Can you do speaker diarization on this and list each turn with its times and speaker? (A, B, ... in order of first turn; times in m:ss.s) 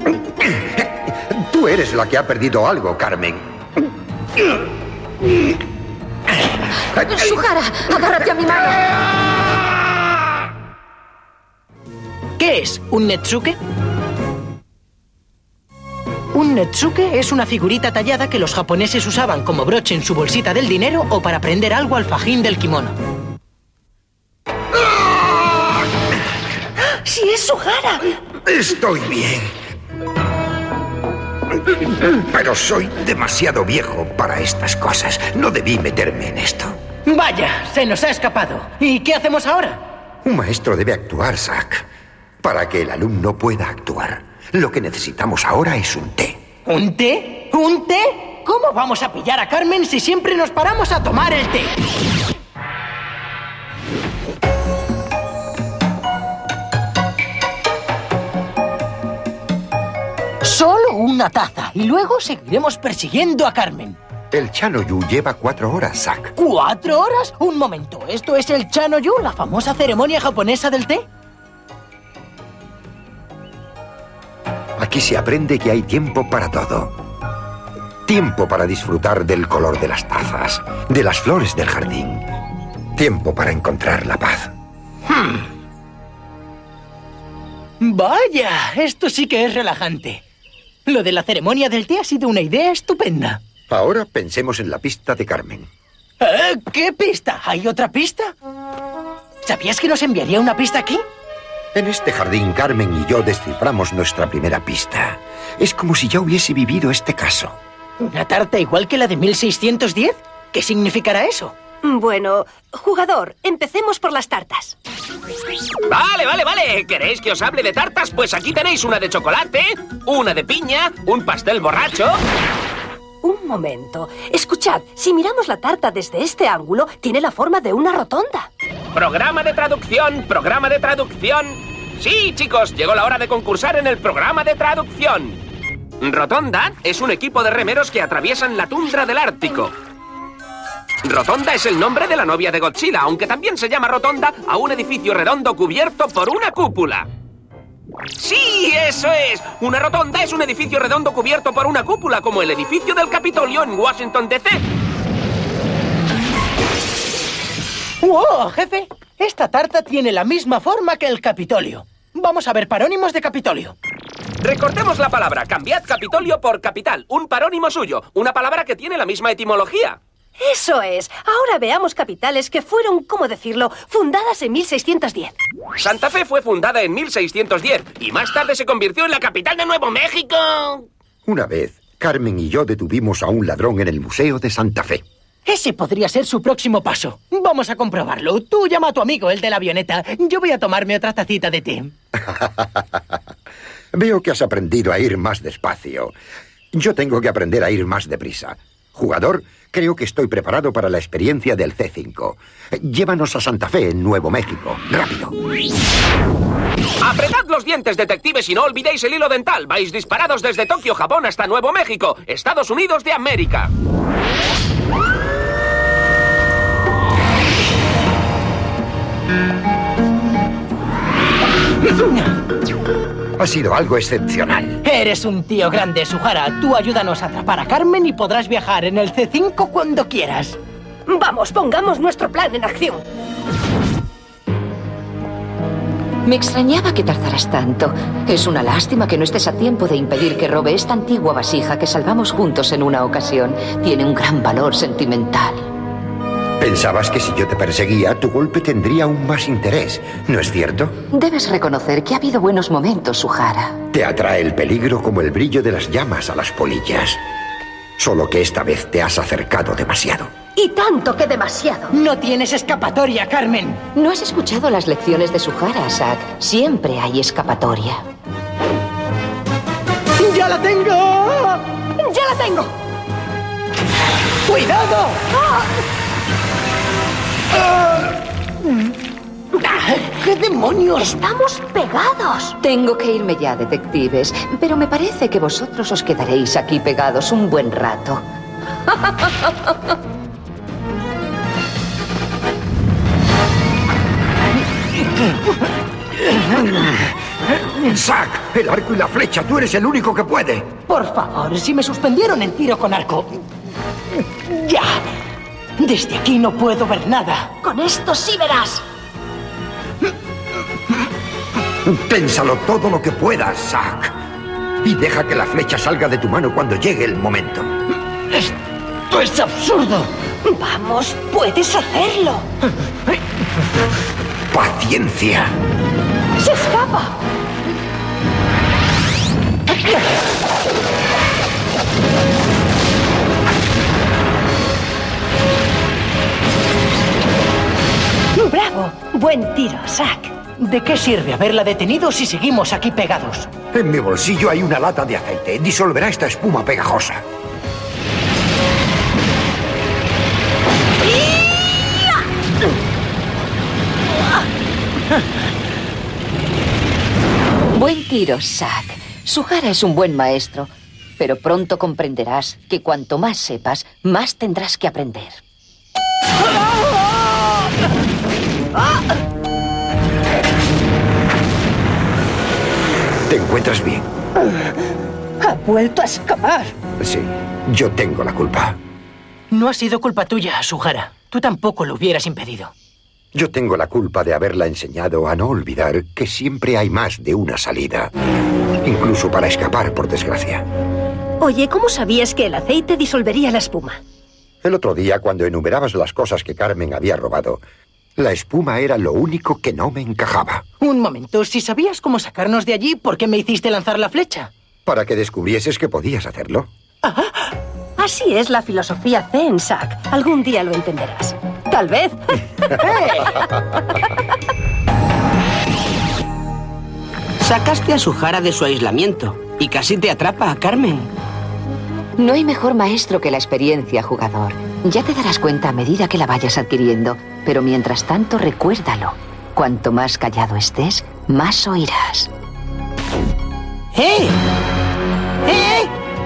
0:00.3-0:03.4 A
0:07.0-0:08.8 B
0:07.1-0:07.4 A
0:12.4-0:13.6 C
0:16.3-0:23.0 C
0:26.8-0:28.2 D
0:28.4-0:29.5 A
0:32.0-0:36.8 A
0:37.0-0:39.8 C
0:40.2-0:41.8 A
0:42.4-0:46.4 A
0:46.6-0:51.7 C
1:00.4-1:04.0 C
1:04.3-1:06.3 A
1:06.4-1:11.0 C
1:14.8-1:16.9 A
1:18.0-1:22.2 A
1:23.0-1:24.5 A
1:25.1-1:25.4 C
1:27.8-1:30.2 C
1:30.8-1:33.4 C
1:33.7-1:35.7 A
1:36.2-1:38.3 C
1:39.4-1:41.0 C
1:41.7-1:47.6 A
1:48.0-1:51.5 C
1:51.8-1:54.8 D
1:55.9-2:02.2 E
2:03.2-2:08.5 D
2:08.9-2:15.4 E
2:16.0-2:19.7 E
2:21.0-2:27.1 E
2:28.2-2:34.6 E
2:38.0-2:43.7 C
2:44.4-2:50.0 E
2:50.4-2:55.3 D
2:55.8-3:00.8 E
3:01.2-3:05.0 A
3:05.4-3:11.9 C
3:12.2-3:13.0 A
3:13.9-3:16.1 A
3:16.7-3:25.3 A
3:27.0-3:33.7 E
3:41.9-3:42.3 C
3:43.4-3:44.8 A
3:44.8-3:50.6 C
3:51.1-3:53.0 D
3:56.2-4:05.7 B
4:06.6-4:11.0 A
4:11.1-4:13.8 B
4:13.9-4:17.2 A
4:18.0-4:20.3 A
4:20.6-4:22.0 D
4:21.9-4:23.8 C
4:24.0-4:28.0 B
4:30.2-4:31.6 C
4:32.0-4:32.7 D
4:34.5-4:35.2 C
4:35.3-4:35.7 D
4:39.7-4:41.0 C
4:41.0-4:42.6 D
4:42.6-4:48.2 B
4:48.9-4:49.5 B
4:56.4-4:57.1 A
4:57.7-5:00.8 A
5:00.9-5:03.4 C
5:04.4-5:05.0 C
5:05.8-5:07.5 C
5:07.6-5:08.8 D
5:11.8-5:14.1 A
5:14.8-5:17.7 A
5:19.1-5:20.1 C
5:20.4-5:22.5 D
5:24.5-5:25.5 A
5:26.4-5:27.2 D
5:38.3-5:40.4 D
5:40.6-5:43.5 C
5:43.7-5:47.2 A
5:57.7-6:05.4 B
6:13.3-6:14.1 A
6:15.4-6:16.7 D
6:17.0-6:18.8 A
6:19.5-6:22.7 C
6:23.3-6:28.1 A
6:28.8-6:30.6 A
6:31.4-6:34.0 D
6:34.6-6:37.6 A
6:38.2-6:40.6 A
6:40.8-6:44.5 C
6:44.8-6:46.7 A
6:47.0-6:47.3 C
6:48.0-6:52.7 D
6:52.8-6:53.1 C
6:57.4-7:01.1 F
7:02.2-7:12.3 B
7:13.9-7:14.4 F
7:15.4-7:15.9 F